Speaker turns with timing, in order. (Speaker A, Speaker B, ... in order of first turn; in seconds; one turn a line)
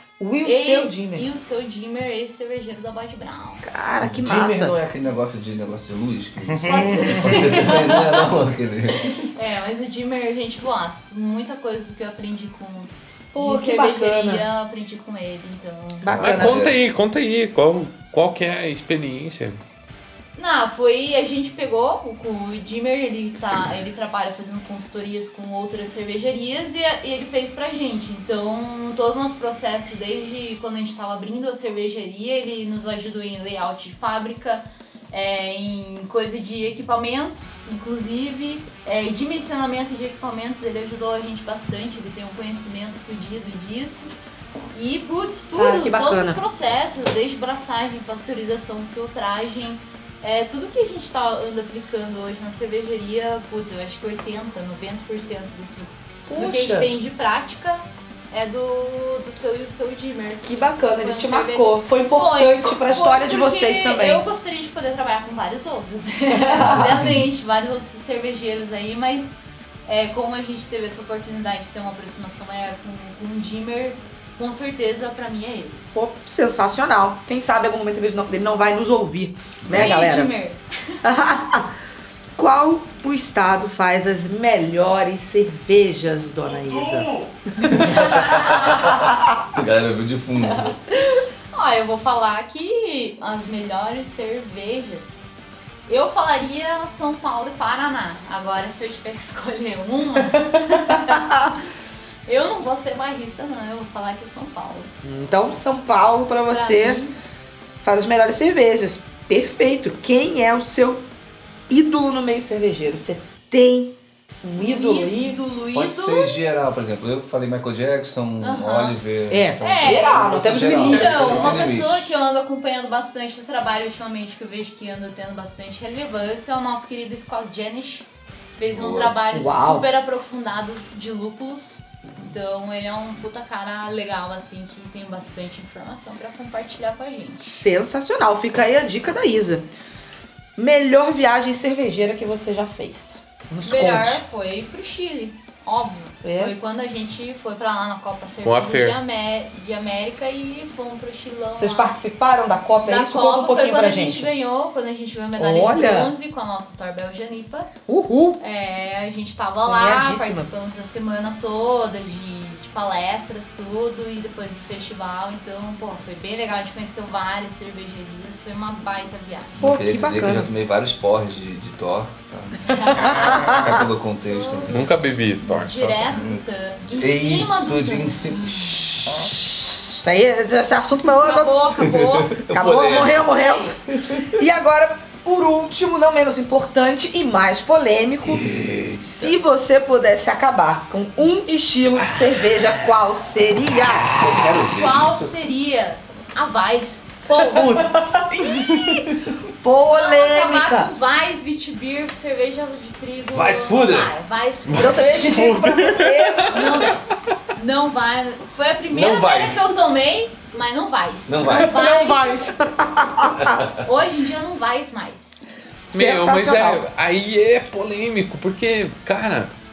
Speaker A: 0.2-1.2
Speaker B: 0.4-3.6
Speaker A: 3.6-4.8
Speaker C: 4.0-9.3
Speaker B: 6.6-8.3
Speaker A: 6.7-7.2
Speaker B: 9.0-16.1
Speaker A: 13.3-14.4
Speaker A: 16.0-16.7
Speaker C: 16.1-16.8
Speaker D: 16.2-19.6
Speaker B: 20.4-44.1
Speaker B: 44.7-69.3
Speaker A: 45.5-46.4
Speaker A: 56.3-56.9
Speaker A: 60.4-64.2
Speaker A: 66.4-66.8
Speaker B: 69.8-75.8
Speaker A: 75.9-80.3
Speaker C: 79.7-79.9
Speaker B: 79.7-80.6
Speaker A: 81.0-81.7
Speaker A: 82.4-87.1
Speaker A: 87.6-89.1
Speaker C: 87.8-88.6
Speaker B: 87.8-89.1
Speaker C: 89.5-90.7
Speaker B: 90.4-95.3
Speaker B: 95.9-101.6
Speaker A: 101.0-101.3
Speaker B: 102.2-104.9
Speaker A: 105.0-107.0
Speaker B: 106.5-107.2
Speaker A: 107.8-111.0
Speaker A: 111.7-115.4
Speaker B: 114.6-116.4
Speaker C: 115.7-122.1
Speaker B: 118.4-119.0
Speaker A: 119.3-121.2
Speaker B: 119.6-120.3
Speaker B: 120.8-137.5
Speaker D: 120.9-121.6
Speaker C: 128.7-129.2
Speaker A: 129.3-129.9
Speaker A: 137.4-139.7
Speaker A: 140.6-144.2
Speaker B: 143.6-151.9
Speaker A: 146.2-146.5
Speaker D: 148.4-149.0
Speaker A: 151.6-154.3
Speaker B: 152.8-157.7
Speaker A: 155.3-156.1
Speaker A: 157.9-158.4
Speaker B: 158.4-169.7
Speaker A: 159.7-160.5
Speaker C: 169.6-174.9
Speaker A: 169.6-170.5
Speaker B: 172.6-173.6
Speaker A: 172.8-173.8
Speaker B: 174.2-178.5
Speaker D: 174.7-176.0
Speaker C: 176.1-179.0
Speaker A: 179.2-181.6
Speaker B: 181.1-182.4
Speaker C: 181.8-183.3
Speaker A: 182.5-194.4
Speaker B: 183.2-183.8
Speaker C: 188.3-188.9
Speaker D: 192.0-192.7
Speaker C: 194.0-195.3
Speaker B: 194.7-198.3
Speaker A: 197.4-200.9
Speaker B: 199.9-205.5
Speaker C: 203.3-204.1
Speaker D: 204.7-206.8
Speaker A: 204.7-206.9
Speaker B: 206.5-212.5
Speaker C: 208.9-209.7
Speaker C: 211.3-211.8
Speaker A: 211.4-213.6
Speaker B: 213.8-215.5
Speaker A: 215.9-216.8
Speaker D: 215.9-219.5